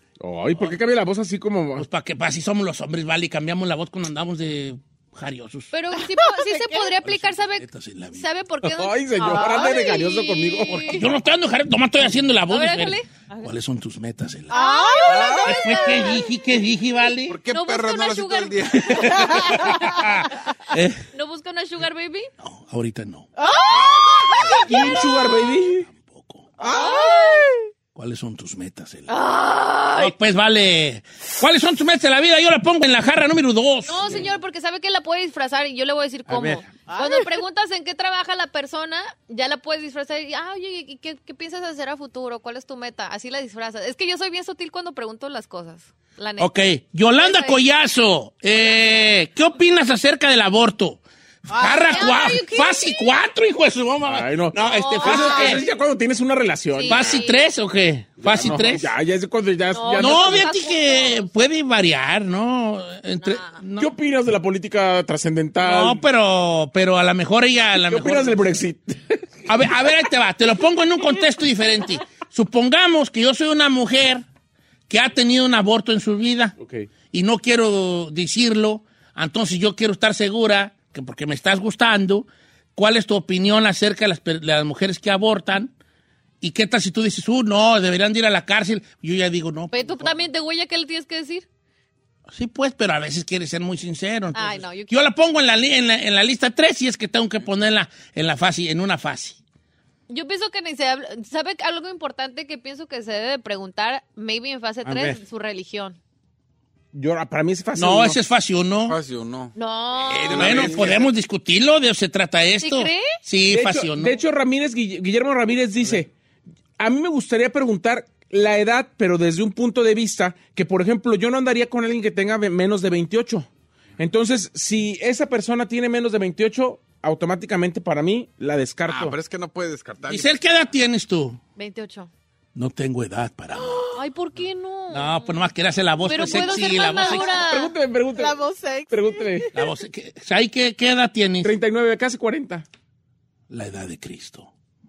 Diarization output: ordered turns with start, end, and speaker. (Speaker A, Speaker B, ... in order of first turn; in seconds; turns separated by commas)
Speaker A: 0.2-1.9, Speaker B: 1.8-5.7, Speaker C: 5.7-11.1, Speaker D: 6.0-6.9, Speaker B: 7.0-8.3, Speaker A: 8.6-11.0, Speaker D: 9.2-9.9, Speaker B: 10.7-14.6, Speaker C: 12.5-13.1, Speaker C: 14.5-15.7, Speaker D: 14.5-16.3, Speaker E: 15.1-15.5, Speaker B: 15.4-17.4, Speaker E: 17.3-19.7, Speaker C: 17.5-19.1, Speaker B: 18.8-21.0, Speaker D: 19.1-19.7, Speaker C: 21.1-22.3, Speaker B: 22.4-23.3, Speaker D: 23.4-25.1, Speaker A: 24.6-25.9, Speaker B: 25.9-26.4, Speaker E: 26.6-27.0, Speaker D: 26.6-27.6, Speaker C: 26.6-27.5, Speaker B: 27.9-29.1, Speaker C: 29.1-30.1, Speaker B: 30.0-34.3, Speaker C: 33.9-46.5, Speaker B: 36.3-36.6, Speaker D: 36.9-37.4, Speaker B: 46.4-55.7, Speaker C: 47.2-47.6, Speaker D: 51.5-52.3, Speaker C: 51.6-53.0, Speaker A: 54.0-57.2, Speaker C: 54.6-55.7, Speaker C: 56.7-57.5, Speaker B: 56.9-58.9, Speaker A: 58.2-60.5, Speaker C: 59.7-61.4, Speaker B: 59.9-63.9, Speaker C: 63.2-63.6, Speaker A: 63.8-66.0, Speaker B: 65.6-68.4, Speaker A: 67.8-69.2, Speaker B: 69.5-74.2, Speaker B: 74.9-76.5, Speaker A: 76.6-76.9, Speaker B: 77.1-85.7, Speaker B: 86.4-90.1, Speaker C: 89.7-91.5, Speaker B: 92.3-99.4, Speaker C: 94.3-95.1, Speaker C: 100.1-106.0, Speaker B: 104.8-105.2, Speaker A: 106.9-108.2, Speaker B: 107.8-109.0, Speaker E: 108.8-111.1, Speaker C: 109.6-110.8, Speaker B: 110.3-114.2, Speaker C: 112.6-113.2, Speaker A: 113.5-116.1, Speaker A: 116.8-129.2, Speaker E: 128.9-130.3, Speaker B: 130.1-131.4, Speaker C: 131.6-132.1, Speaker B: 132.6-134.0, Speaker C: 133.6-135.4, Speaker B: 134.9-137.3, Speaker C: 136.0-137.8, Speaker D: 136.3-137.5, Speaker A: 137.4-138.4, Speaker D: 138.1-139.7, Speaker A: 138.9-139.5, Speaker B: 139.5-141.5, Speaker A: 141.4-142.7, Speaker B: 143.5-144.5